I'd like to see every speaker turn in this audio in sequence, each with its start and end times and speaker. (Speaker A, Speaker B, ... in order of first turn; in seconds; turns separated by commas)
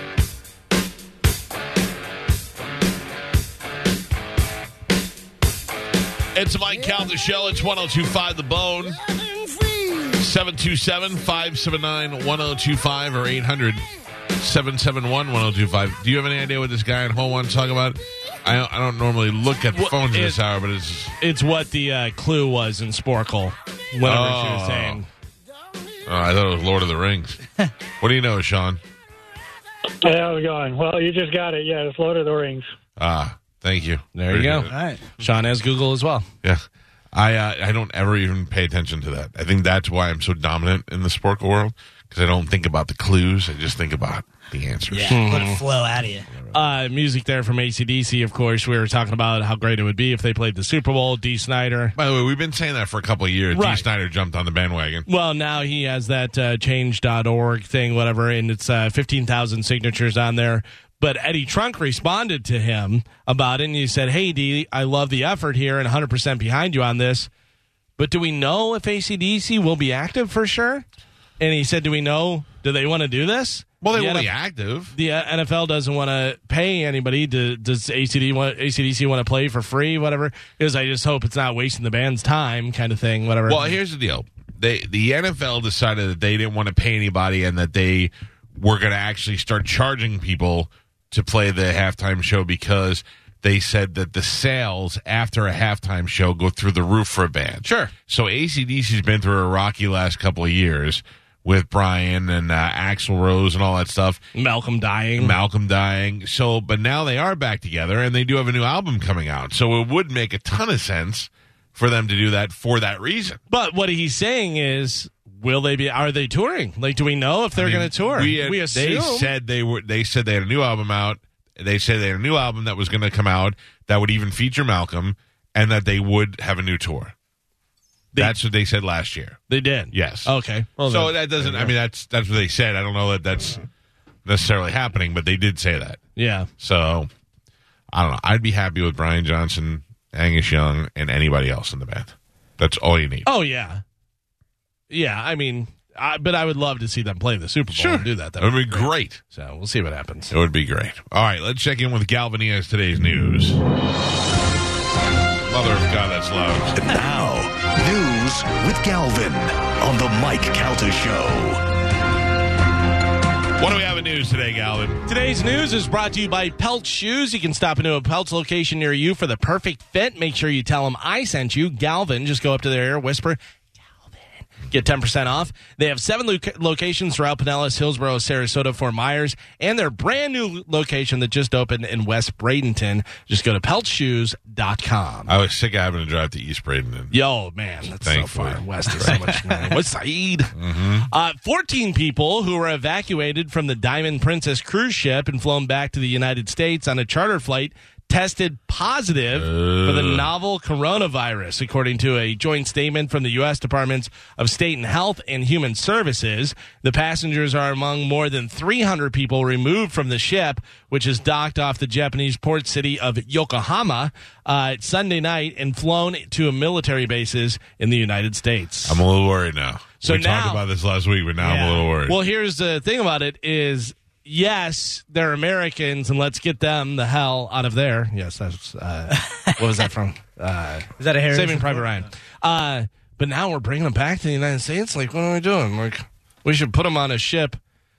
Speaker A: 6.3-9.0, Speaker A: 10.1-13.8, Speaker A: 14.4-21.2, Speaker B: 19.7-20.4, Speaker B: 21.2-25.1, Speaker A: 24.0-25.0, Speaker A: 26.1-27.4, Speaker A: 28.0-28.8, Speaker C: 30.0-32.7, Speaker A: 33.0-34.8, Speaker B: 34.1-36.2, Speaker D: 34.7-35.0, Speaker A: 36.4-45.3, Speaker D: 44.9-46.3, Speaker B: 45.1-45.6, Speaker A: 46.3-46.7, Speaker B: 46.5-52.0, Speaker A: 52.0-55.1, Speaker B: 53.5-53.9, Speaker B: 55.1-67.3, Speaker B: 68.0-70.8, Speaker B: 71.4-74.3, Speaker A: 73.8-75.0, Speaker B: 74.9-83.8, Speaker A: 83.5-104.2, Speaker B: 97.6-97.9, Speaker B: 104.3-105.4, Speaker A: 105.2-113.4, Speaker B: 113.5-119.3, Speaker A: 117.5-127.1, Speaker A: 128.1-129.4, Speaker B: 129.5-131.7, Speaker A: 129.9-133.6, Speaker A: 134.2-136.0, Speaker B: 136.2-136.5, Speaker A: 136.6-137.1, Speaker A: 137.9-143.3, Speaker B: 143.2-143.8, Speaker B: 144.9-150.3, Speaker A: 147.7-149.2, Speaker A: 150.3-153.6, Speaker A: 155.5-156.8, Speaker E: 156.8-161.6, Speaker A: 163.6-165.0, Speaker B: 165.1-173.4, Speaker B: 174.1-185.3, Speaker A: 185.3-187.1, Speaker B: 187.1-190.5, Speaker A: 188.0-189.4, Speaker A: 190.5-191.1, Speaker B: 191.1-219.0, Speaker A: 199.3-200.3, Speaker A: 218.8-222.2, Speaker B: 220.0-220.6, Speaker D: 221.4-221.9, Speaker B: 222.1-237.6, Speaker D: 231.0-232.0